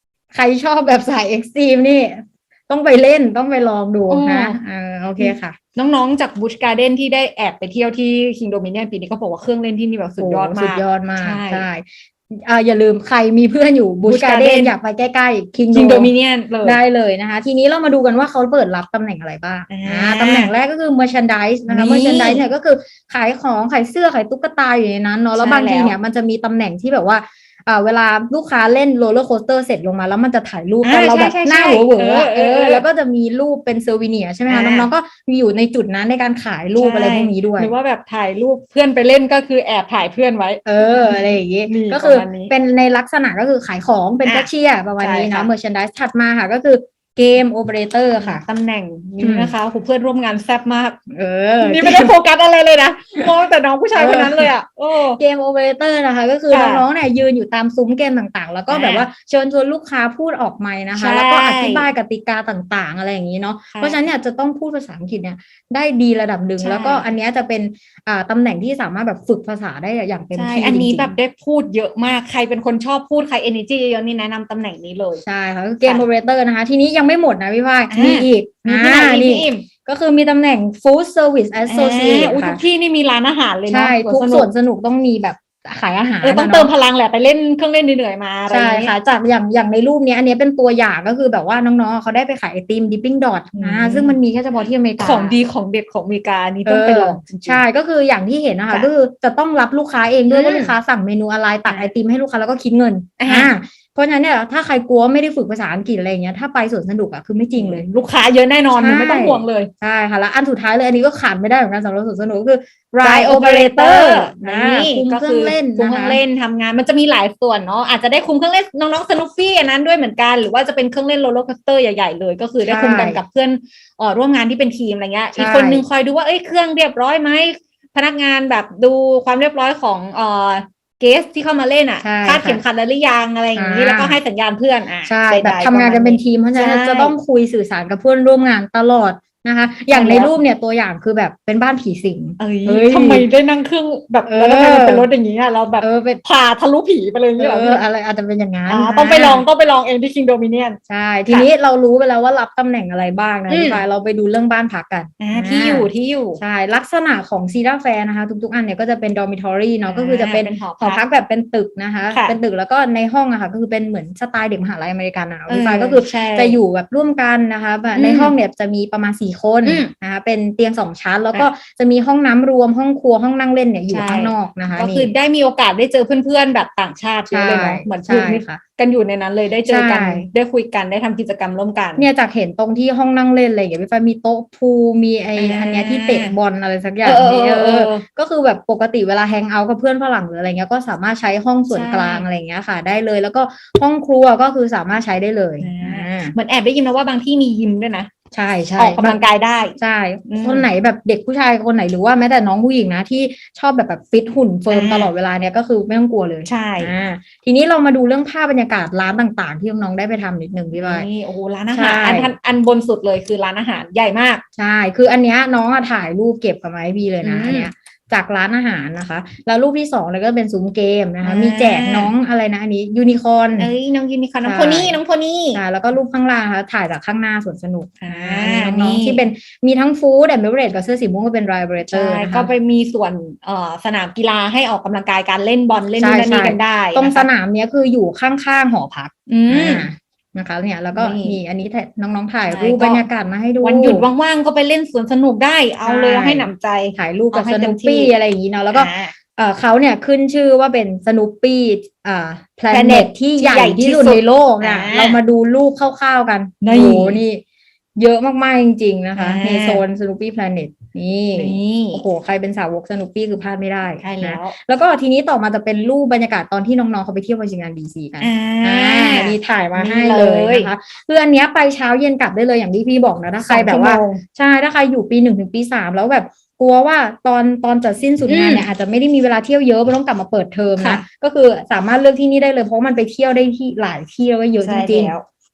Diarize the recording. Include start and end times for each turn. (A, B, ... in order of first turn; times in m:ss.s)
0:00.3-0:05.6 A
0:04.1-0:04.6 B
0:05.2-0:11.7 B
0:10.2-0:16.1 A
0:14.0-0:14.7 B
0:15.7-0:16.8 B
0:16.6-0:37.7 A
0:19.7-0:20.5 B
0:21.7-0:22.4 B
0:25.4-0:26.0 B
0:30.8-0:32.8 B
0:34.5-0:34.9 B
0:36.8-0:42.5 B
0:40.6-0:48.4 A
0:44.2-0:45.5 B
0:48.2-0:51.0 B
0:49.2-0:49.5 A
0:51.1-0:52.1 A
0:51.6-0:55.2 B
0:54.0-0:54.5 A
0:55.1-1:11.2 A
0:56.5-0:56.8 B
0:58.7-0:59.1 B
1:00.9-1:01.9 B
1:03.7-1:04.0 B
1:06.6-1:07.1 B
1:10.3-1:15.2 B
1:15.2-1:22.6 A
1:17.9-1:19.6 B
1:21.7-1:24.5 B
1:23.7-1:26.7 A
1:26.2-1:28.9 B
1:28.5-1:35.4 A
1:33.6-1:34.2 B
1:35.0-1:37.6 B
1:36.6-1:47.8 A
1:40.3-1:40.7 B
1:41.6-1:41.9 B
1:43.2-1:43.5 B
1:47.6-1:49.7 B
1:48.7-1:56.2 A
1:53.0-2:17.1 B
2:02.6-2:03.2 A
2:05.4-2:05.8 A
2:12.0-2:12.6 A
2:13.6-2:14.2 A
2:15.0-2:23.3 A
2:19.9-2:20.4 B
2:22.4-2:27.8 B
2:24.2-2:25.1 A
2:25.8-2:26.2 A
2:27.4-2:29.4 A
2:28.7-2:31.5 B
2:30.9-2:55.1 A
2:33.5-2:33.8 B
2:35.2-2:36.4 B
2:39.8-2:41.0 B
2:42.1-2:42.4 B
2:45.5-2:46.6 B
2:47.9-2:48.3 B
2:49.6-2:49.9 B
2:53.9-3:02.1 B
2:57.3-2:58.6 A
2:59.6-3:00.3 A
3:02.0-3:16.3 A
3:05.4-3:06.3 B
3:07.0-3:08.0 B
3:11.7-3:12.2 B
3:15.6-3:18.1 B
3:18.3-3:19.2 A
3:18.7-3:20.7 B
3:19.8-3:31.1 A
3:24.7-3:25.1 B
3:26.4-3:26.9 B
3:30.7-3:34.4 B
3:31.7-3:32.3 A
3:34.6-3:43.7 A
3:37.2-3:37.7 B
3:41.2-3:42.1 B
3:43.6-3:45.6 B
3:44.4-3:45.0 A
3:45.5-3:52.5 A
3:48.0-3:49.2 B
3:51.9-3:57.3 B
3:56.0-4:04.1 A
3:59.3-3:59.9 B
4:00.9-4:01.4 B
4:02.5-4:03.1 B
4:03.6-4:08.1 B
4:05.8-4:17.4 A
4:08.7-4:09.1 B
4:12.7-4:15.2 B
4:16.6-4:17.2 B
4:18.0-4:45.1 A
4:19.1-4:19.8 B
4:21.4-4:22.0 B
4:24.0-4:24.5 B
4:28.2-4:30.7 B
4:33.4-4:34.2 B
4:38.3-4:38.6 B
4:44.6-4:45.2 B